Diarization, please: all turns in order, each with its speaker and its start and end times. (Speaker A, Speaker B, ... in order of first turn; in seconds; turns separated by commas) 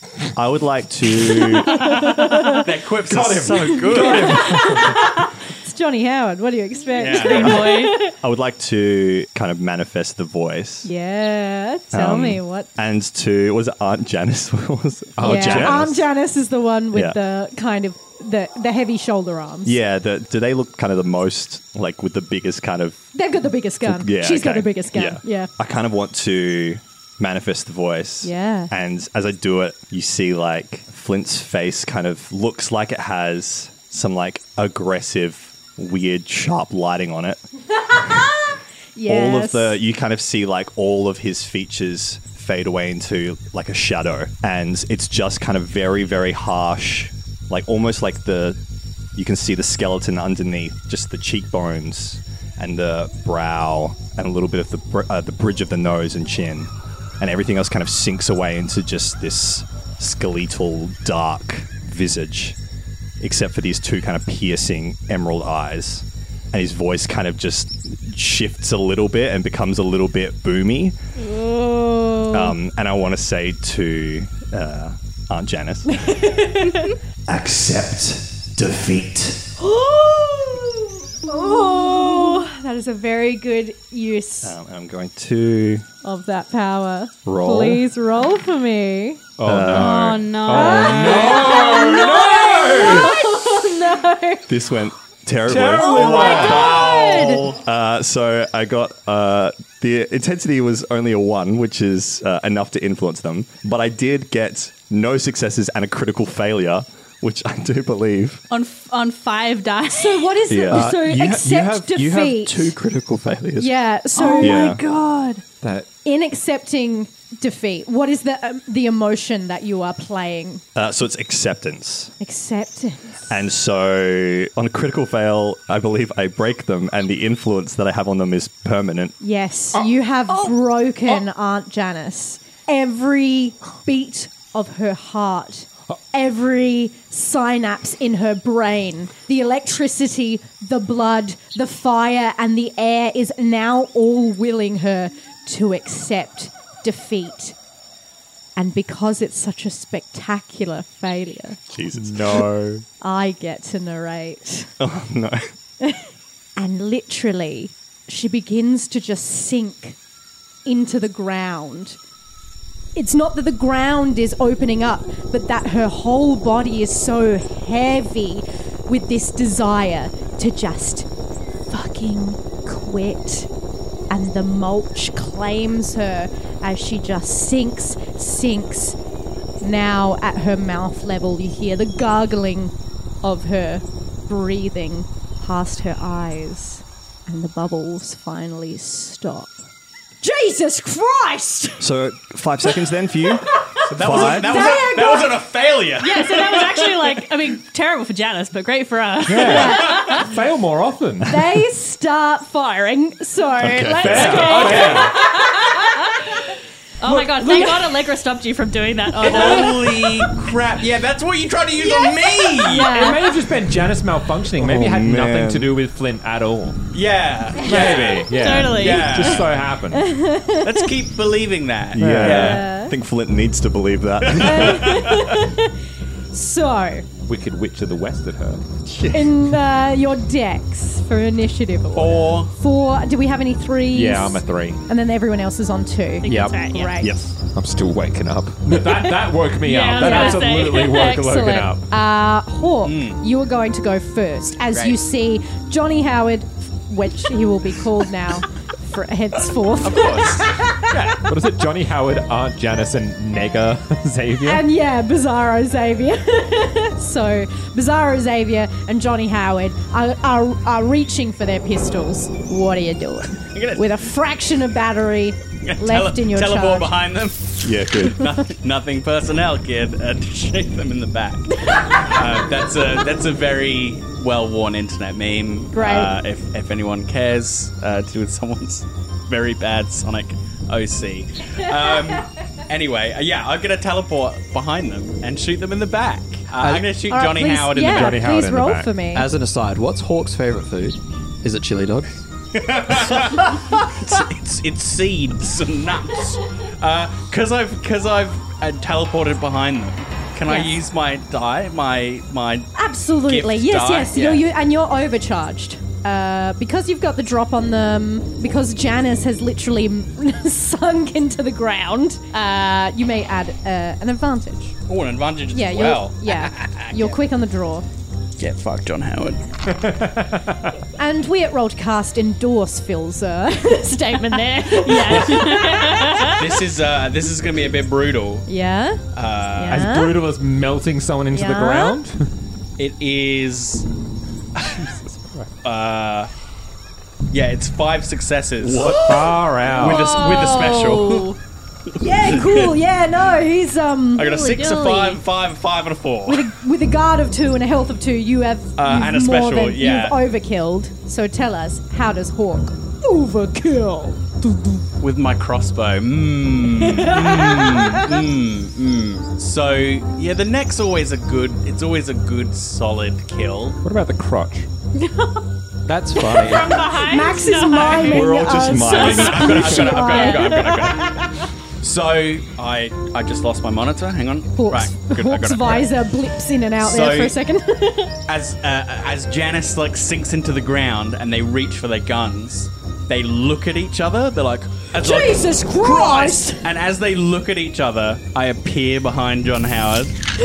Speaker A: 0.3-1.8, Speaker B: 1.3-2.6, Speaker C: 1.8-4.4, Speaker D: 3.1-4.8, Speaker B: 3.6-8.1, Speaker C: 7.0-7.7, Speaker E: 7.0-8.0, Speaker A: 8.2-10.9, Speaker B: 10.8-12.7, Speaker A: 11.9-16.0, Speaker F: 15.2-15.7, Speaker B: 15.2-19.8, Speaker D: 15.2-15.8, Speaker A: 16.9-17.2, Speaker A: 19.6-23.1, Speaker B: 23.1-25.5, Speaker A: 23.8-37.4, Speaker B: 28.2-28.7, Speaker B: 38.0-39.8, Speaker A: 39.0-48.6, Speaker A: 49.1-62.6, Speaker A: 63.2-71.0, Speaker B: 71.2-72.5, Speaker A: 72.3-76.0, Speaker B: 76.0-76.9, Speaker A: 77.3-79.4, Speaker B: 79.6-84.5, Speaker A: 84.4-85.8, Speaker B: 86.0-89.2, Speaker A: 87.2-87.8, Speaker D: 89.4-93.2, Speaker A: 89.5-90.5, Speaker E: 89.7-91.5, Speaker B: 90.5-94.5, Speaker A: 94.5-108.4, Speaker D: 95.5-96.8, Speaker B: 95.8-97.5, Speaker E: 108.5-110.4, Speaker B: 109.9-112.8, Speaker A: 110.5-110.9, Speaker F: 110.7-113.7, Speaker B: 113.6-115.4, Speaker A: 114.4-114.8, Speaker D: 115.6-115.9, Speaker B: 116.0-120.6, Speaker A: 120.7-122.1, Speaker B: 122.2-123.4, Speaker A: 123.3-129.1, Speaker B: 129.2-147.5, Speaker B: 148.6-151.6, Speaker A: 151.7-152.4, Speaker D: 151.9-152.8, Speaker B: 153.0-154.7, Speaker A: 154.8-155.5, Speaker B: 155.8-159.9, Speaker B: 160.7-162.0, Speaker B: 162.9-171.1, Speaker B: 171.7-173.5, Speaker B: 174.1-179.0, Speaker B: 179.6-189.5, Speaker B: 190.2-191.8, Speaker A: 191.8-194.7, Speaker C: 193.9-197.2, Speaker B: 194.1-195.4, Speaker E: 196.0-200.2, Speaker D: 199.2-201.4, Speaker B: 199.4-200.0, Speaker B: 201.2-205.3, Speaker A: 203.6-204.6, Speaker D: 204.0-205.1, Speaker E: 204.1-206.2, Speaker E: 207.0-210.0, Speaker D: 207.1-207.7, Speaker C: 209.2-213.0, Speaker B: 211.8-213.3, Speaker D: 212.7-216.8, Speaker A: 214.5-215.7, Speaker C: 216.9-219.5, Speaker D: 217.7-220.1, Speaker E: 217.8-219.3, Speaker B: 219.9-220.7, Speaker C: 220.6-222.6, Speaker A: 221.9-225.2, Speaker D: 222.0-222.5, Speaker B: 222.3-222.9, Speaker B: 224.3-225.7, Speaker B: 226.3-227.1, Speaker D: 227.2-228.6, Speaker A: 229.0-229.2, Speaker B: 229.1-237.1, Speaker C: 231.9-232.5, Speaker D: 233.9-234.8, Speaker E: 236.2-237.2, Speaker D: 237.5-241.9, Speaker E: 239.6-241.8, Speaker B: 240.0-240.5, Speaker B: 241.8-250.9, Speaker C: 242.8-243.2, Speaker C: 244.7-244.9, Speaker C: 249.8-251.1, Speaker D: 251.1-254.6, Speaker B: 254.4-266.9, Speaker C: 263.5-263.8, Speaker C: 265.6-288.2, Speaker A: 267.6-268.3, Speaker B: 271.7-272.1, Speaker B: 275.7-276.1, Speaker F: 286.6-286.9, Speaker B: 287.1-289.3, Speaker D: 287.8-289.0, Speaker F: 289.1-292.2, Speaker C: 292.5-302.7, Speaker B: 300.4-300.8, Speaker B: 302.8-314.7, Speaker C: 303.2-304.4, Speaker C: 314.9-317.2, Speaker B: 315.5-317.9, Speaker C: 318.4-319.4, Speaker D: 319.7-320.7, Speaker B: 321.0-326.4, Speaker E: 324.3-326.4, Speaker C: 326.4-328.5, Speaker B: 328.5-329.0, Speaker C: 329.1-329.9, Speaker B: 329.6-330.2, Speaker D: 329.7-332.3, Speaker B: 331.3-332.0, Speaker C: 332.8-333.9, Speaker D: 334.7-335.5, Speaker C: 335.6-336.3, Speaker C: 337.3-341.3, Speaker A: 338.6-338.9, Speaker D: 338.9-340.3, Speaker E: 339.6-341.4, Speaker B: 342.0-344.4, Speaker C: 342.2-342.7, Speaker C: 344.1-346.5, Speaker E: 344.3-345.2, Speaker B: 346.3-354.8, Speaker C: 348.8-350.2, Speaker C: 355.0-363.8, Speaker B: 356.7-358.0, Speaker D: 363.8-364.7, Speaker F: 365.9-366.8, Speaker E: 366.3-369.2, Speaker B: 366.3-371.3, Speaker A: 368.0-370.1, Speaker C: 368.9-371.2, Speaker C: 371.8-375.9, Speaker B: 374.6-378.1, Speaker C: 376.8-377.4, Speaker C: 378.3-390.1, Speaker B: 384.9-386.6